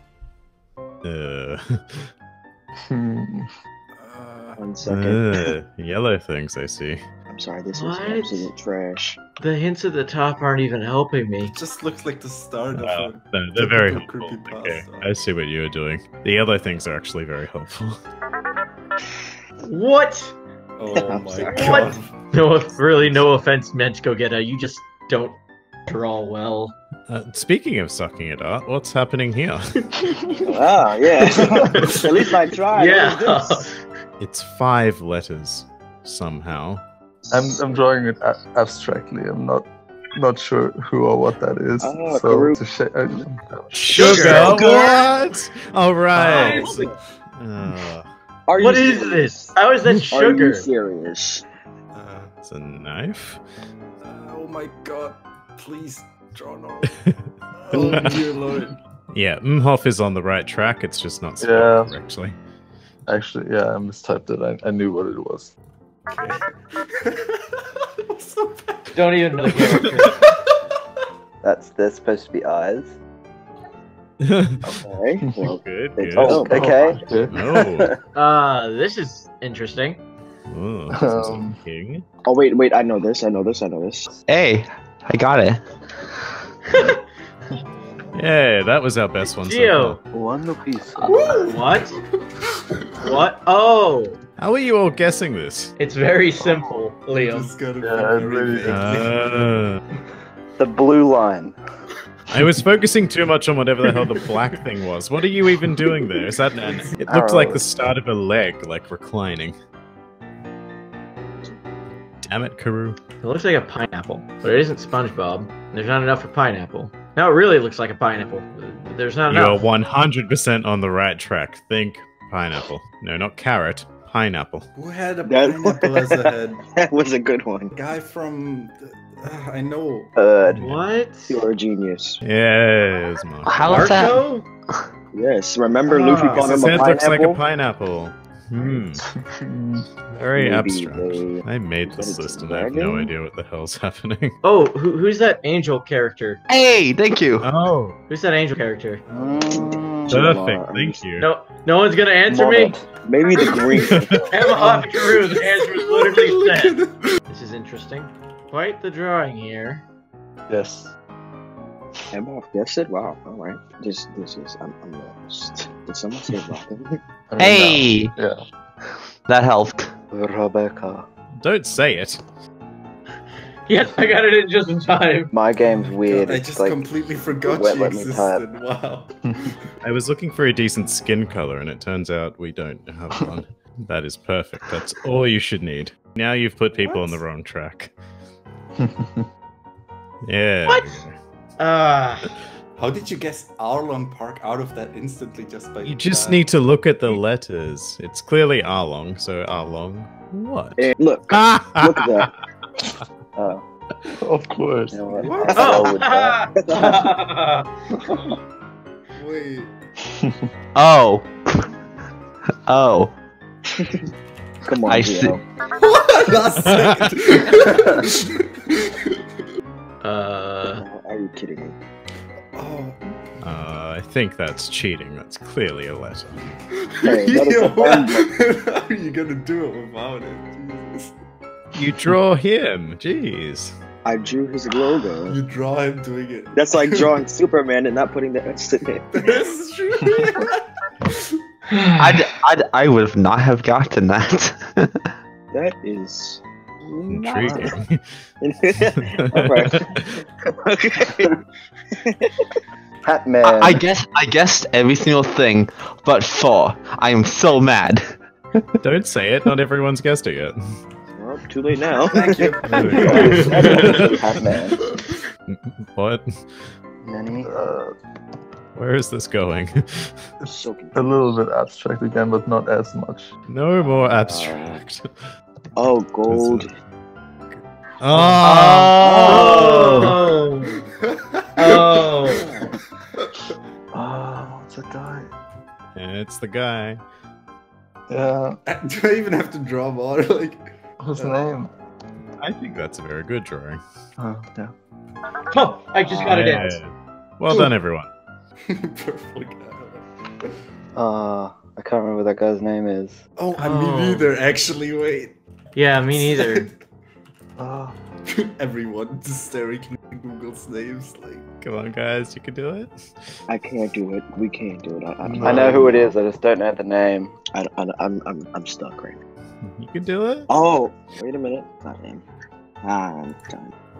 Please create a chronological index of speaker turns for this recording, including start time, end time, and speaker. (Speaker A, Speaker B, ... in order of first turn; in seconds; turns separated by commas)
Speaker A: 1.0-2.1, Speaker B: 2.9-3.5, Speaker C: 3.9-4.6, Speaker D: 4.6-5.4, Speaker A: 4.8-7.0, Speaker D: 7.3-9.2, Speaker E: 7.7-8.5, Speaker E: 9.4-11.5, Speaker C: 11.5-15.1, Speaker A: 12.8-18.0, Speaker E: 19.7-20.4, Speaker C: 20.8-22.1, Speaker D: 21.0-21.9, Speaker E: 21.5-26.8, Speaker A: 27.1-29.6, Speaker D: 30.4-33.6, Speaker E: 31.3-32.0, Speaker E: 32.7-33.7, Speaker A: 34.2-36.8, Speaker B: 37.3-44.0, Speaker D: 37.4-37.6, Speaker D: 41.8-43.2, Speaker A: 43.7-48.1, Speaker E: 43.9-45.0, Speaker D: 44.0-44.6, Speaker C: 46.2-46.7, Speaker E: 46.2-46.7, Speaker D: 46.4-46.9, Speaker D: 48.5-49.5, Speaker E: 48.6-50.7, Speaker D: 50.1-51.4, Speaker C: 51.9-52.3, Speaker A: 52.4-53.4, Speaker C: 54.0-56.9, Speaker C: 57.5-58.8, Speaker B: 57.7-58.6, Speaker A: 57.8-58.1, Speaker A: 59.1-62.4, Speaker B: 61.4-61.9, Speaker B: 63.1-65.5, Speaker C: 66.1-67.4, Speaker C: 68.1-70.6, Speaker E: 68.9-70.2, Speaker F: 71.4-72.9, Speaker A: 74.2-74.6, Speaker D: 74.7-76.7, Speaker B: 75.2-75.5, Speaker A: 75.5-76.5, Speaker F: 76.2-77.0, Speaker B: 76.3-77.7, Speaker A: 77.3-78.0, Speaker E: 78.1-80.0, Speaker A: 80.5-82.0, Speaker B: 80.9-81.6, Speaker D: 82.2-84.1, Speaker G: 84.3-85.6, Speaker E: 86.7-87.0, Speaker A: 88.1-90.0, Speaker E: 89.4-90.0, Speaker F: 90.1-91.1, Speaker E: 91.0-92.0, Speaker C: 91.0-92.0, Speaker E: 93.0-94.2, Speaker A: 94.4-95.7, Speaker E: 95.8-97.5, Speaker C: 97.1-99.2, Speaker B: 97.8-99.0, Speaker A: 98.7-99.8, Speaker F: 100.6-101.5, Speaker A: 102.3-109.5, Speaker C: 105.8-107.0, Speaker F: 107.1-107.6, Speaker A: 112.2-113.0, Speaker E: 113.2-119.6, Speaker A: 119.3-124.7, Speaker C: 124.8-126.6, Speaker D: 125.2-127.7, Speaker C: 127.7-130.1, Speaker F: 130.2-130.7, Speaker A: 130.5-130.8, Speaker E: 130.6-131.4, Speaker D: 131.3-132.2, Speaker A: 132.2-133.9, Speaker G: 133.4-134.2, Speaker E: 133.6-134.4, Speaker D: 135.1-137.4, Speaker E: 135.8-136.8, Speaker A: 136.3-139.0, Speaker B: 139.3-139.8, Speaker A: 140.1-144.3, Speaker D: 140.3-143.1, Speaker E: 144.4-146.4, Speaker G: 146.5-147.5, Speaker A: 147.4-148.0, Speaker E: 148.1-149.0, Speaker F: 149.1-150.3, Speaker D: 149.5-151.0, Speaker A: 150.1-151.3, Speaker E: 151.2-152.8, Speaker D: 152.3-154.3, Speaker C: 153.4-153.8, Speaker B: 153.9-154.8, Speaker E: 154.3-156.8, Speaker C: 154.8-157.2, Speaker E: 157.3-159.8, Speaker B: 160.5-160.9, Speaker D: 162.1-166.9, Speaker B: 167.3-168.4, Speaker G: 167.4-168.1, Speaker G: 169.3-169.9, Speaker F: 170.1-171.0, Speaker A: 171.4-172.2, Speaker E: 173.7-175.3, Speaker F: 175.3-176.8, Speaker C: 176.1-179.6, Speaker F: 177.4-178.4, Speaker B: 179.2-179.5, Speaker A: 179.8-187.9, Speaker C: 186.7-187.2, Speaker B: 188.8-189.2, Speaker A: 190.2-191.2, Speaker E: 190.7-191.0, Speaker E: 191.6-192.3, Speaker C: 192.8-196.4, Speaker A: 195.8-202.3, Speaker D: 200.8-202.3, Speaker D: 203.3-203.6, Speaker B: 204.2-205.2, Speaker D: 205.0-207.0, Speaker C: 205.1-206.0, Speaker F: 205.2-206.1, Speaker E: 205.5-207.7, Speaker C: 209.1-209.7, Speaker B: 210.1-210.4, Speaker G: 210.8-211.3, Speaker G: 212.7-213.1, Speaker D: 214.7-215.4, Speaker G: 214.8-215.4, Speaker C: 215.8-219.2, Speaker A: 216.7-216.9, Speaker B: 217.4-217.9, Speaker E: 220.0-220.8, Speaker D: 220.7-221.8, Speaker C: 222.5-223.0, Speaker A: 223.4-226.5, Speaker C: 226.7-231.1, Speaker D: 227.0-228.2, Speaker A: 231.8-233.7, Speaker D: 234.0-235.4, Speaker C: 235.2-237.2, Speaker D: 236.5-239.0, Speaker C: 239.1-241.2, Speaker E: 241.7-242.2, Speaker G: 242.0-244.9, Speaker D: 245.5-247.7, Speaker A: 247.1-248.0, Speaker D: 248.4-251.4, Speaker A: 249.0-250.0, Speaker F: 253.0-253.8, Speaker G: 253.4-258.1, Speaker A: 258.8-260.6, Speaker D: 261.1-264.3, Speaker C: 262.1-264.4, Speaker A: 262.6-263.5, Speaker F: 263.0-264.8, Speaker A: 265.5-266.2, Speaker F: 267.0-267.5, Speaker B: 267.4-267.9, Speaker A: 268.7-270.1, Speaker B: 270.4-273.3, Speaker D: 270.5-271.0, Speaker A: 273.5-275.1, Speaker D: 273.8-274.8, Speaker D: 275.8-276.7, Speaker A: 276.3-276.7, Speaker A: 277.5-280.1, Speaker E: 278.4-280.7, Speaker G: 279.1-279.8, Speaker D: 279.2-279.6, Speaker C: 280.7-282.4, Speaker E: 281.6-282.5, Speaker D: 282.4-282.7, Speaker B: 283.9-285.3, Speaker A: 285.9-287.0, Speaker B: 288.1-288.6, Speaker C: 288.7-291.4, Speaker B: 291.0-291.7, Speaker A: 292.4-293.8, Speaker B: 294.2-294.7, Speaker E: 295.5-296.8, Speaker A: 296.1-298.1, Speaker C: 298.7-300.0, Speaker F: 300.9-303.2, Speaker C: 303.4-305.4, Speaker E: 303.6-304.3, Speaker E: 305.7-306.7, Speaker C: 306.1-306.7, Speaker F: 307.6-307.9, Speaker C: 308.3-311.4, Speaker A: 311.6-312.9, Speaker D: 313.5-316.1, Speaker B: 315.2-316.1, Speaker F: 315.4-317.4, Speaker D: 317.6-319.2, Speaker A: 319.6-320.5, Speaker D: 320.5-322.2, Speaker D: 322.8-323.7